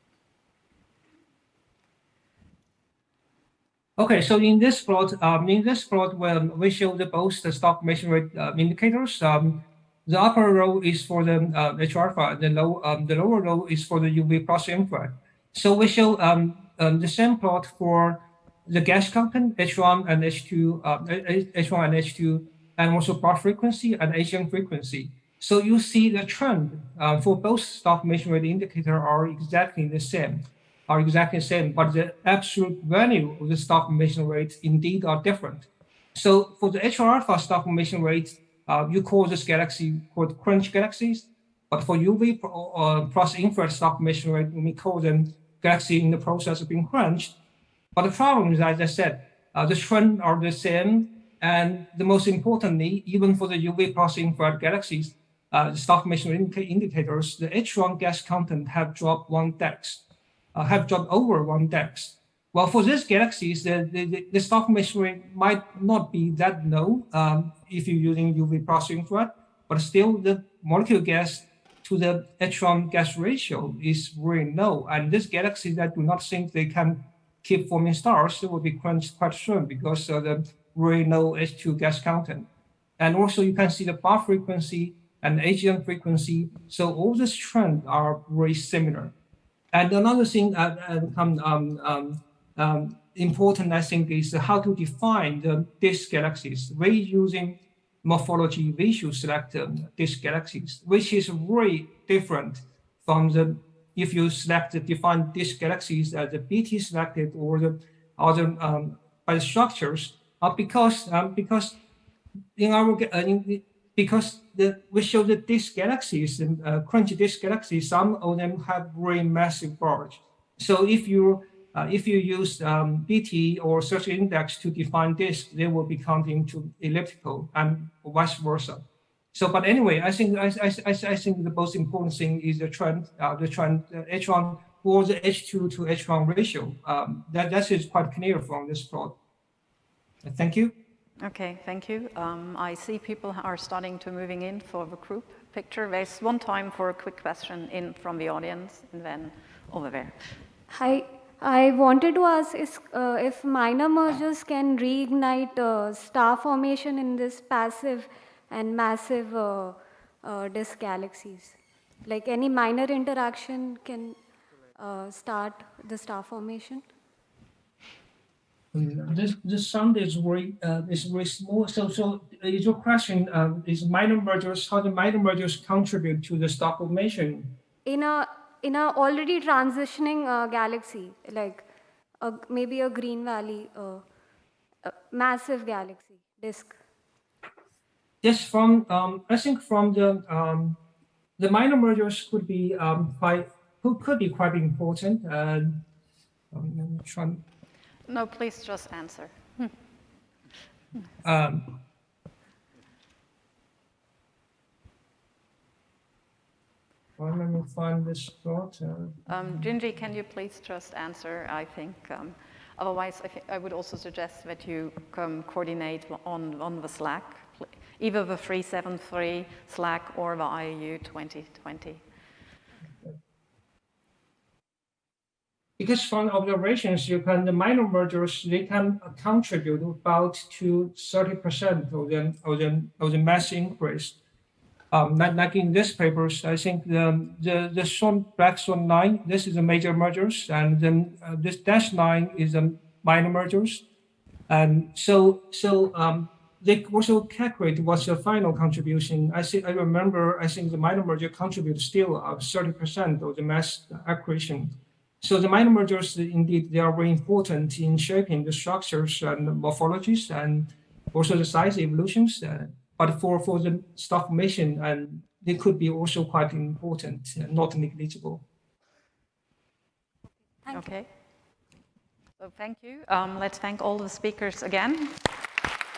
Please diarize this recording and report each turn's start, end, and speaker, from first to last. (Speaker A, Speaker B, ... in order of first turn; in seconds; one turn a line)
Speaker A: 4.0-47.3
Speaker A: 47.9-82.5
Speaker A: 83.0-89.1
Speaker A: 89.7-111.8
Speaker A: 112.5-139.2
Speaker A: 140.2-140.7
Speaker B: 141.2-150.1
Speaker C: 150.7-164.2
Speaker C: 164.8-166.8
Speaker A: 168.7-177.6
Speaker C: 177.8-181.6
Speaker C: 182.2-184.0
Speaker C: 184.8-186.8
Speaker A: 188.2-190.8
Speaker A: 191.4-195.8
Speaker A: 196.5-197.4
Speaker B: 198.1-199.8
Speaker A: 201.2-201.8
Speaker A: 207.2-209.2
Speaker B: 209.3-222.0
Speaker A: 225.8-234.2
Speaker A: 234.9-243.8
Speaker A: 244.5-268.4
Speaker C: 270.6-270.9
Speaker B: 270.7-271.1
Speaker B: 272.4-275.2